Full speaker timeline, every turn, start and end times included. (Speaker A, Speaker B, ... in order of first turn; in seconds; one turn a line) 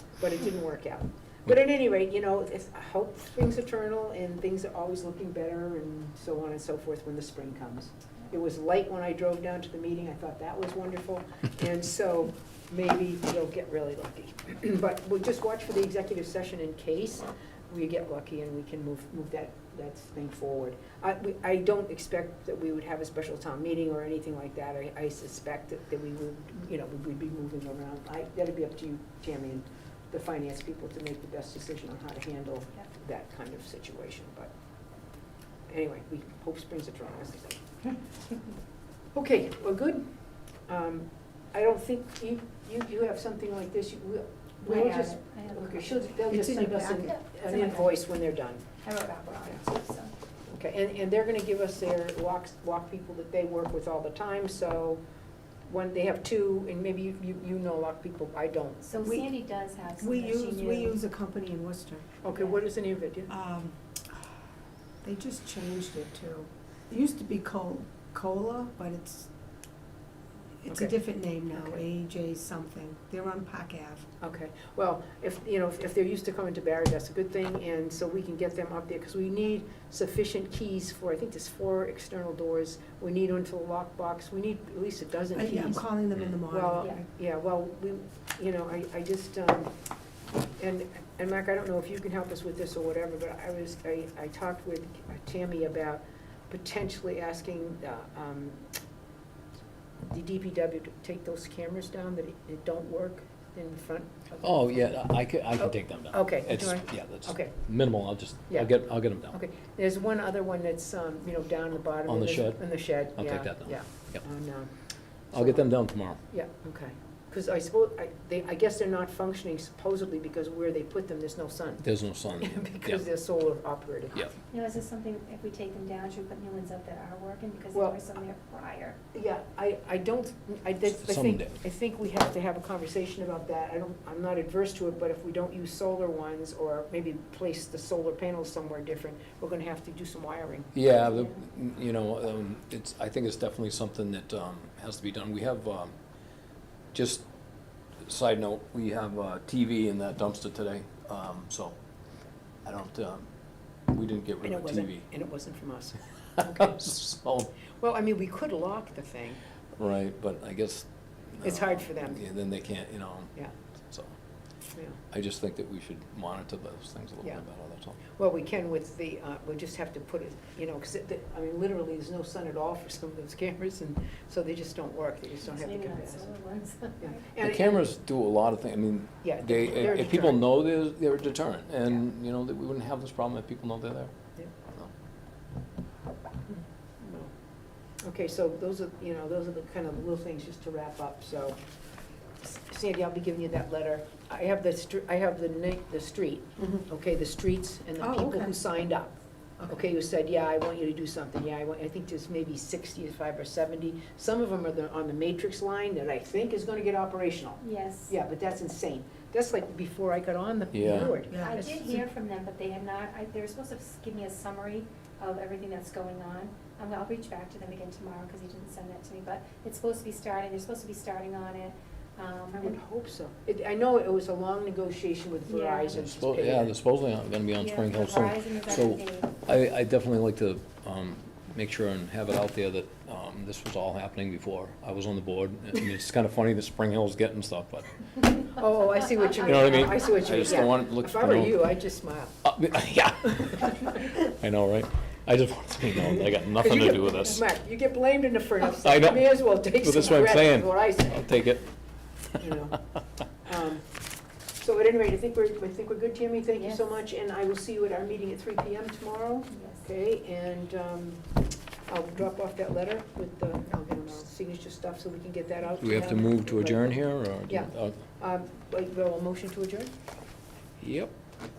Speaker A: 0.2-34.5
Speaker A: 35.7-37.6
Speaker A: 39.1-40.1
Speaker A: 40.7-48.6
Speaker B: 44.6-46.2
Speaker C: 46.3-47.2
Speaker B: 47.4-48.0
Speaker B: 48.8-50.1
Speaker A: 50.5-55.0
Speaker A: 55.7-58.9
Speaker B: 58.9-61.0
Speaker C: 59.0-59.3
Speaker C: 60.0-62.1
Speaker A: 62.2-63.3
Speaker B: 62.3-62.6
Speaker C: 63.3-64.2
Speaker C: 65.0-69.3
Speaker C: 70.6-74.1
Speaker A: 70.7-70.9
Speaker A: 71.5-71.8
Speaker A: 74.2-85.8
Speaker C: 85.3-87.0
Speaker A: 86.4-89.7
Speaker A: 90.6-98.6
Speaker A: 100.1-105.0
Speaker D: 104.4-109.3
Speaker A: 105.6-107.6
Speaker A: 109.3-114.7
Speaker D: 112.0-114.2
Speaker D: 115.3-116.2
Speaker A: 115.3-115.6
Speaker A: 116.3-121.8
Speaker D: 121.8-123.1
Speaker A: 122.4-124.3
Speaker B: 124.5-129.0
Speaker A: 127.7-128.0
Speaker A: 129.1-140.7
Speaker D: 131.0-131.5
Speaker D: 140.7-145.9
Speaker D: 146.9-147.2
Speaker D: 148.0-151.8
Speaker D: 152.7-153.3
Speaker D: 153.9-155.1
Speaker A: 154.4-156.8
Speaker D: 156.4-157.5
Speaker A: 157.8-159.4
Speaker D: 159.8-163.3
Speaker A: 161.4-162.2
Speaker D: 165.1-168.0
Speaker A: 168.0-176.3
Speaker B: 175.4-177.2
Speaker A: 177.0-177.8
Speaker D: 177.4-184.1
Speaker A: 179.2-180.4
Speaker A: 186.5-187.3
Speaker A: 188.0-191.6
Speaker A: 192.4-211.6
Speaker C: 198.0-198.6
Speaker B: 207.6-208.1
Speaker D: 210.7-211.2
Speaker C: 210.9-211.8
Speaker B: 211.4-222.8
Speaker A: 222.5-226.8
Speaker B: 225.5-225.9
Speaker D: 225.9-237.9
Speaker B: 227.6-229.3
Speaker A: 238.5-242.3
Speaker D: 239.3-241.6
Speaker D: 242.4-247.4
Speaker A: 246.6-251.3
Speaker D: 248.7-251.7
Speaker A: 252.4-252.8
Speaker A: 253.4-253.8
Speaker A: 254.6-261.2
Speaker B: 256.6-256.9
Speaker B: 259.5-259.8
Speaker A: 261.9-269.9
Speaker D: 265.8-268.0
Speaker D: 270.8-271.1